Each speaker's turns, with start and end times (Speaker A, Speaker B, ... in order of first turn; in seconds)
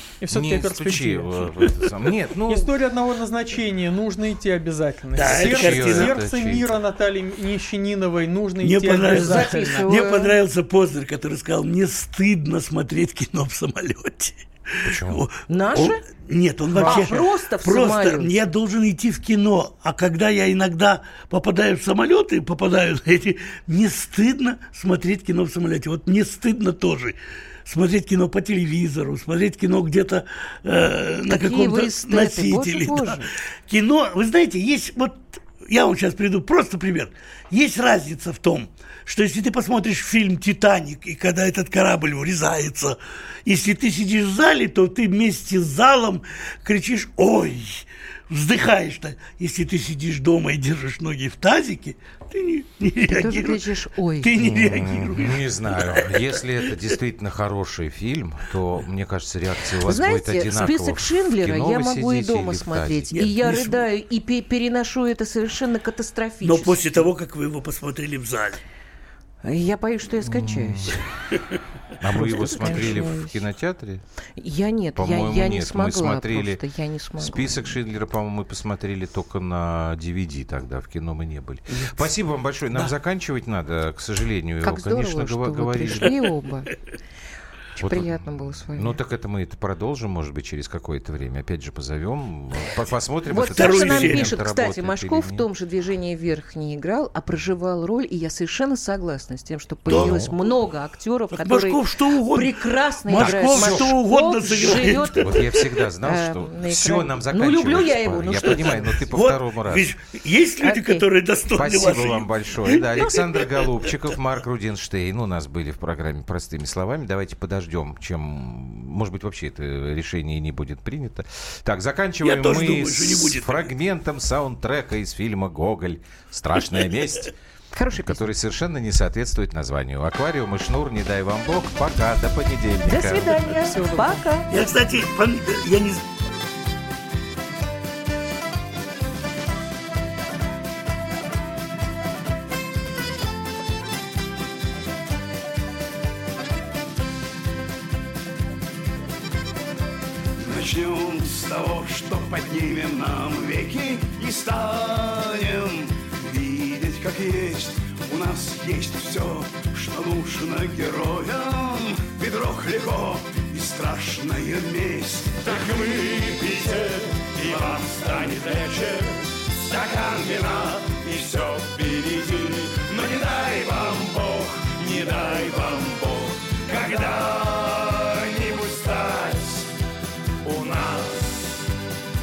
Speaker A: 0.2-1.3, 2.5-9.9, 16.7-17.2, 133.6-134.2
Speaker B: 0.3-2.7, 5.2-6.8, 14.8-15.2, 54.4-63.3, 70.2-71.0, 72.0-74.0, 74.9-76.6, 77.2-86.2, 87.8-95.5, 99.9-100.3, 103.1-103.9, 104.8-109.9, 111.5-127.3, 127.9-133.4
Speaker C: 5.1-6.2, 8.6-53.6, 54.2-56.1, 63.1-63.8, 66.4-68.6, 93.5-94.3, 99.9-100.2, 101.3-105.4, 108.6-113.9, 122.2-123.7, 134.5-136.0
Speaker D: 9.1-10.3, 15.5-16.0, 16.8-18.4, 31.3-33.3, 53.0-54.4, 59.8-67.1, 69.4-71.0, 72.1-73.4, 74.4-77.8, 84.6-86.7, 87.8-89.0, 93.3-109.0, 110.6-111.0, 127.7-128.3, 132.8-134.5
Speaker E: 150.4-179.7, 180.4-181.6